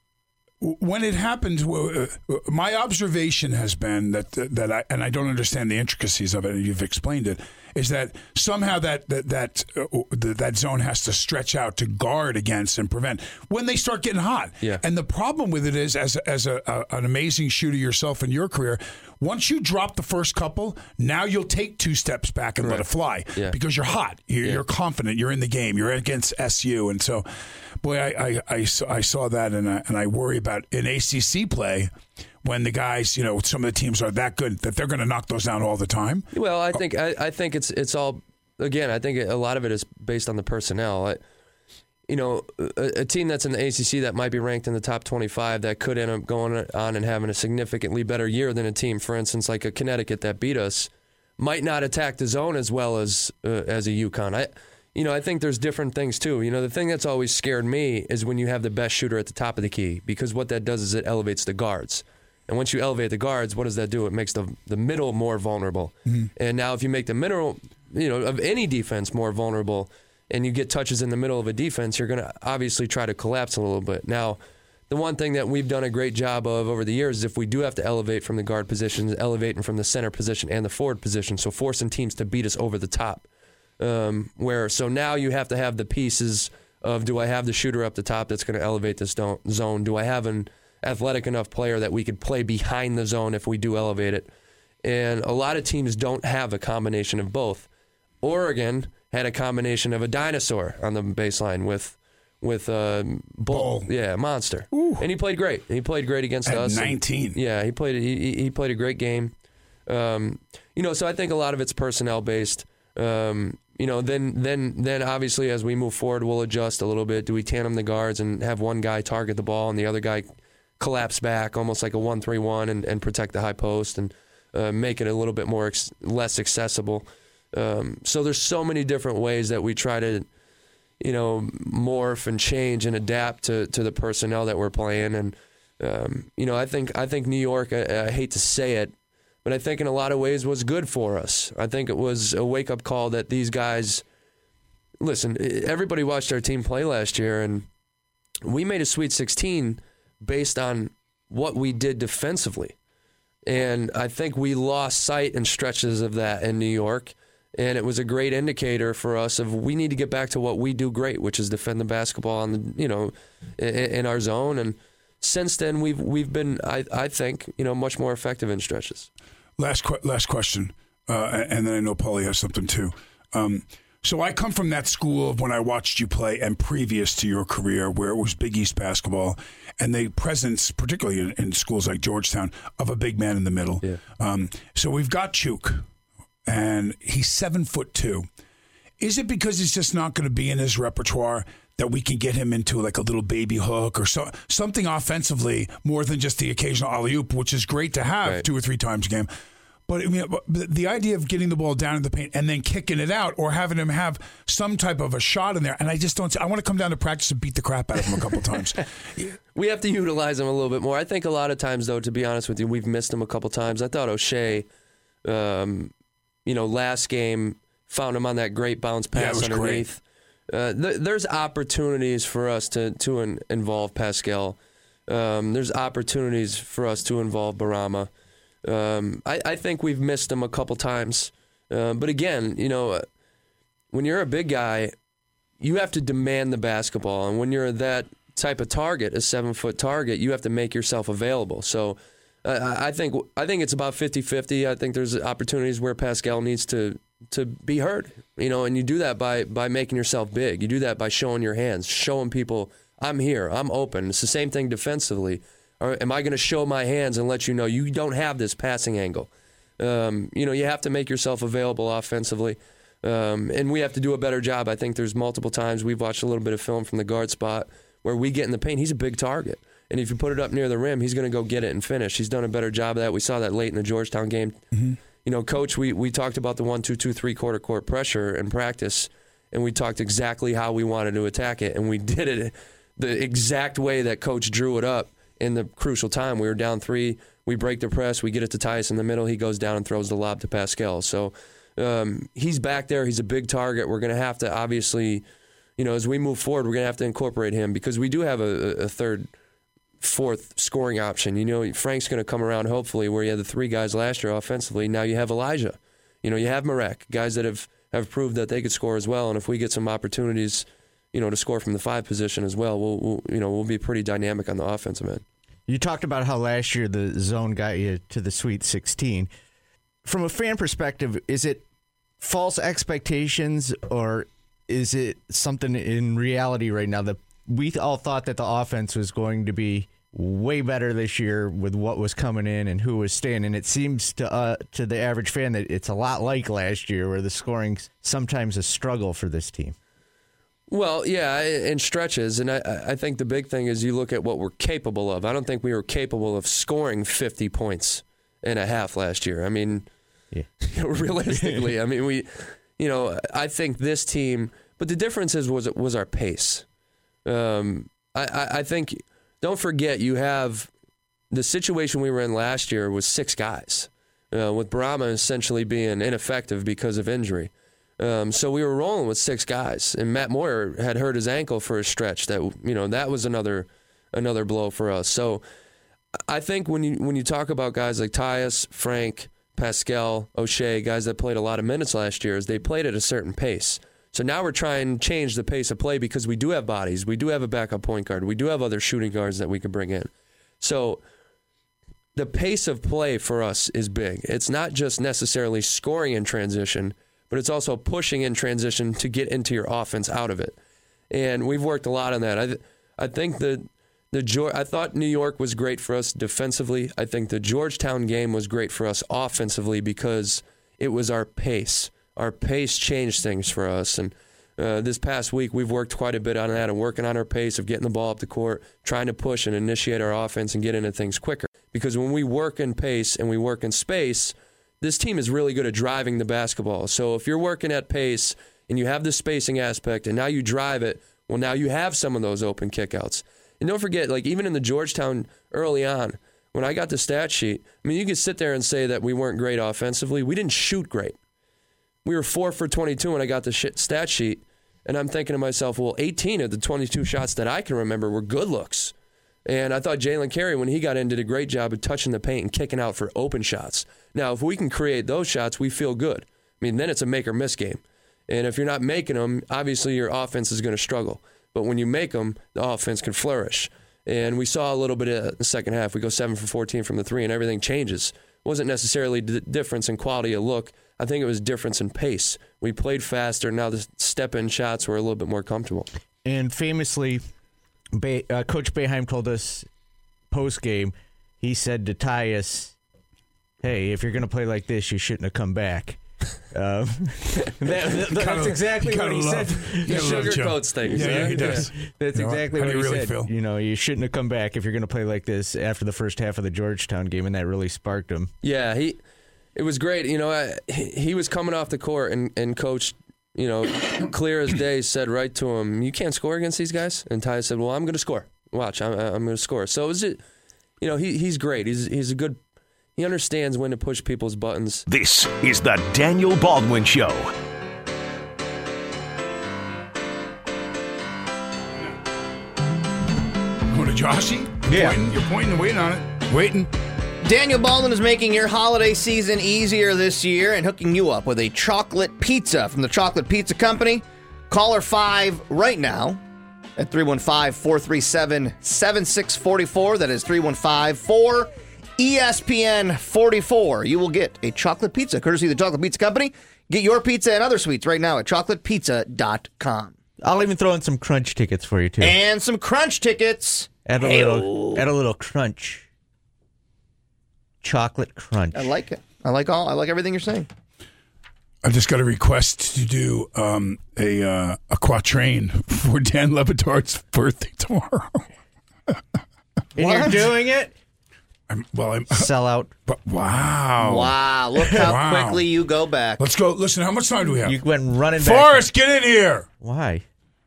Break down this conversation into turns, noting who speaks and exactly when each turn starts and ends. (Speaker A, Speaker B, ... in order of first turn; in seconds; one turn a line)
Speaker A: 0.6-27.3
Speaker B: 22.6-23.6
Speaker A: 27.8-31.9
Speaker A: 32.4-36.8
Speaker B: 36.3-41.2
Speaker B: 42.1-74.4
Speaker B: 74.9-83.2
Speaker B: 83.8-94.3
Speaker B: 94.8-97.7
Speaker B: 98.2-109.3
Speaker A: 103.5-103.9
Speaker A: 104.7-105.1
Speaker A: 106.4-107.4
Speaker B: 109.9-120.3
Speaker B: 120.8-130.3
Speaker B: 131.0-138.9
Speaker B: 139.4-144.0
Speaker B: 145.0-147.7
Speaker B: 148.4-152.8
Speaker B: 153.5-169.1
Speaker A: 169.6-185.9
Speaker A: 186.5-188.3
Speaker A: 189.0-199.3
Speaker A: 199.9-209.3
Speaker B: 209.5-214.7
Speaker B: 215.2-215.9
Speaker B: 216.5-224.6
Speaker A: 219.1-219.9
Speaker B: 225.1-228.1
Speaker B: 228.7-233.1
Speaker B: 233.9-234.9
Speaker B: 235.6-274.6
Speaker A: 274.7-275.0
Speaker B: 275.2-295.2
Speaker B: 295.8-299.3
Speaker B: 300.0-315.2
Speaker C: 315.7-319.3
Speaker C: 320.1-321.6
Speaker C: 322.2-339.8
Speaker B: 340.7-349.9
Speaker B: 350.7-356.6
Speaker B: 357.3-360.7
Speaker B: 361.3-375.4
Speaker B: 376.3-390.1
Speaker B: 390.6-391.0
Speaker B: 392.1-400.6
Speaker B: 401.1-441.2
Speaker B: 442.1-448.9
Speaker B: 449.5-475.9
Speaker C: 476.2-477.3
Speaker C: 477.9-479.7
Speaker C: 480.3-482.8
Speaker C: 483.6-486.0
Speaker C: 486.5-498.3
Speaker A: 488.1-493.3
Speaker B: 489.9-491.7
Speaker B: 498.4-499.0
Speaker B: 499.6-510.2
Speaker B: 510.8-512.4
Speaker B: 513.0-514.9
Speaker D: 514.9-517.3
Speaker A: 523.7-526.7
Speaker C: 524.7-525.0
Speaker E: 527.2-536.2
Speaker E: 536.8-550.0
Speaker C: 550.2-552.2
Speaker E: 552.0-554.9
Speaker C: 553.9-555.9
Speaker C: 557.6-558.7
Speaker E: 558.5-560.5
Speaker A: 561.6-568.3
Speaker C: 569.8-570.7
Speaker E: 569.8-570.3
Speaker A: 571.5-572.3
Speaker C: 572.1-572.7
Speaker A: 572.9-574.1
Speaker E: 573.8-576.2
Speaker C: 574.6-574.9
Speaker A: 574.7-575.5
Speaker A: 576.2-577.6
Speaker C: 577.5-578.7
Speaker A: 578.1-579.5
Speaker C: 579.6-580.0